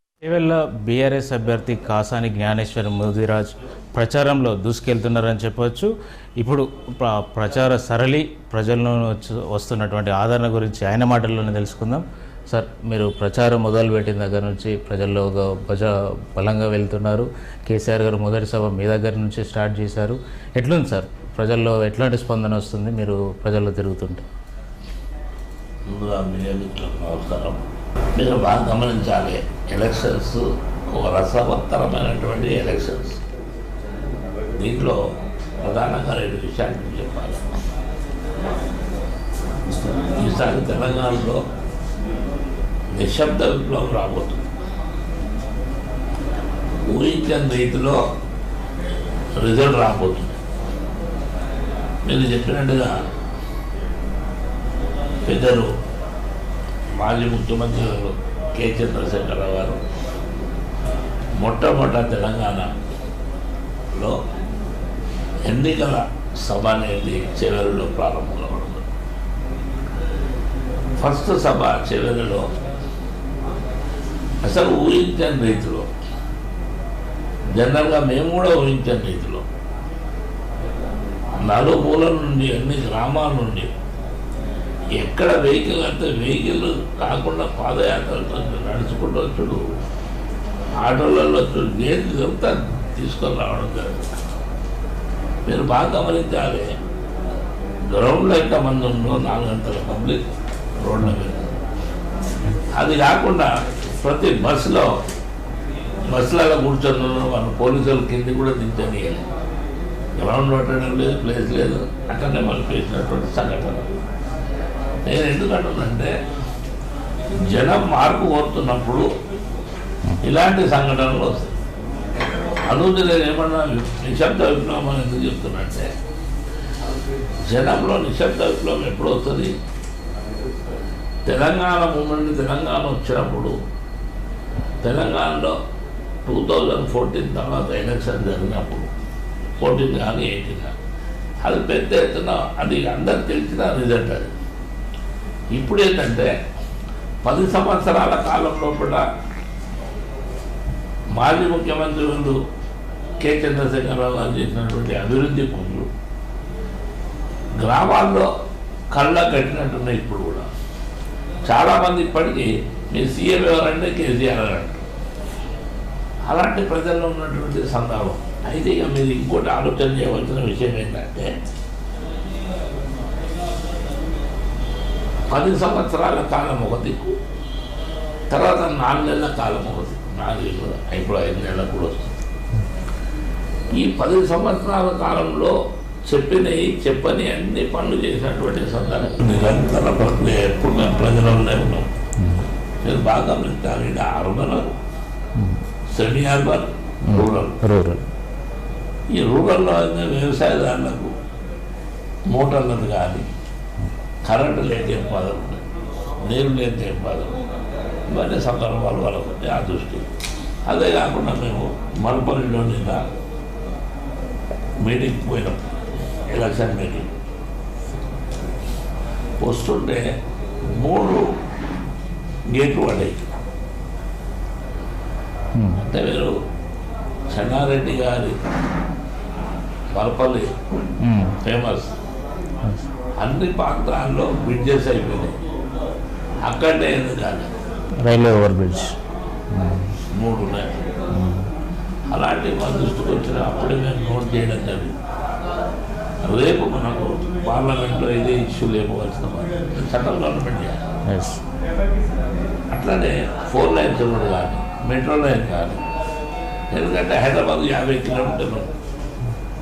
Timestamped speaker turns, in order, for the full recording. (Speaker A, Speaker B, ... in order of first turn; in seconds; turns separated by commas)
Speaker A: 0.2-24.2, Speaker B: 25.9-33.2, Speaker B: 34.6-35.0, Speaker B: 35.6-37.5, Speaker B: 40.1-41.4, Speaker B: 42.9-44.4, Speaker B: 46.9-48.0, Speaker B: 49.4-50.4, Speaker B: 52.0-52.9, Speaker B: 55.3-55.7, Speaker B: 57.0-59.8, Speaker B: 61.4-62.7, Speaker B: 65.5-68.8, Speaker B: 71.0-72.5, Speaker B: 74.4-75.9, Speaker B: 77.5-79.5, Speaker B: 81.4-83.7, Speaker B: 85.0-89.7, Speaker B: 90.8-94.0, Speaker B: 95.5-96.7, Speaker B: 97.9-100.2, Speaker B: 100.8-101.5, Speaker B: 102.7-103.5, Speaker B: 104.0-104.9, Speaker B: 106.1-109.3, Speaker B: 110.2-113.9, Speaker B: 115.0-116.1, Speaker B: 117.5-119.1, Speaker B: 120.2-121.5, Speaker B: 122.6-125.9, Speaker B: 127.5-129.6, Speaker B: 131.2-133.6, Speaker B: 134.8-135.6, Speaker B: 136.2-138.9, Speaker B: 139.6-140.7, Speaker B: 141.4-144.3, Speaker B: 145.5-146.3, Speaker B: 147.2-149.1, Speaker B: 151.1-152.4, Speaker B: 153.2-155.9, Speaker B: 157.6-158.3, Speaker B: 158.9-160.5, Speaker B: 161.4-164.9, Speaker B: 166.3-171.4, Speaker B: 175.3-177.2, Speaker B: 178.3-182.1, Speaker B: 183.7-191.9, Speaker A: 192.2-192.4, Speaker B: 192.8-194.7, Speaker B: 195.9-197.6, Speaker A: 197.1-198.0, Speaker B: 199.1-201.1, Speaker B: 202.3-203.3, Speaker B: 204.2-205.6, Speaker B: 206.2-207.4, Speaker B: 208.1-210.1, Speaker B: 210.7-213.1, Speaker B: 214.8-215.8, Speaker B: 216.3-217.1, Speaker B: 219.4-220.1, Speaker B: 220.7-221.2, Speaker B: 222.5-223.4, Speaker A: 225.6-225.8, Speaker B: 225.8-226.3, Speaker B: 227.3-228.4, Speaker B: 229.9-230.5, Speaker A: 231.0-231.4, Speaker B: 231.4-231.9, Speaker B: 233.2-235.4, Speaker B: 236.4-237.5, Speaker A: 238.0-238.9, Speaker A: 239.5-239.9, Speaker B: 240.1-240.8, Speaker A: 241.1-241.5, Speaker B: 242.1-244.9, Speaker B: 246.2-250.8, Speaker A: 251.1-251.4, Speaker B: 252.7-255.8, Speaker B: 256.7-258.7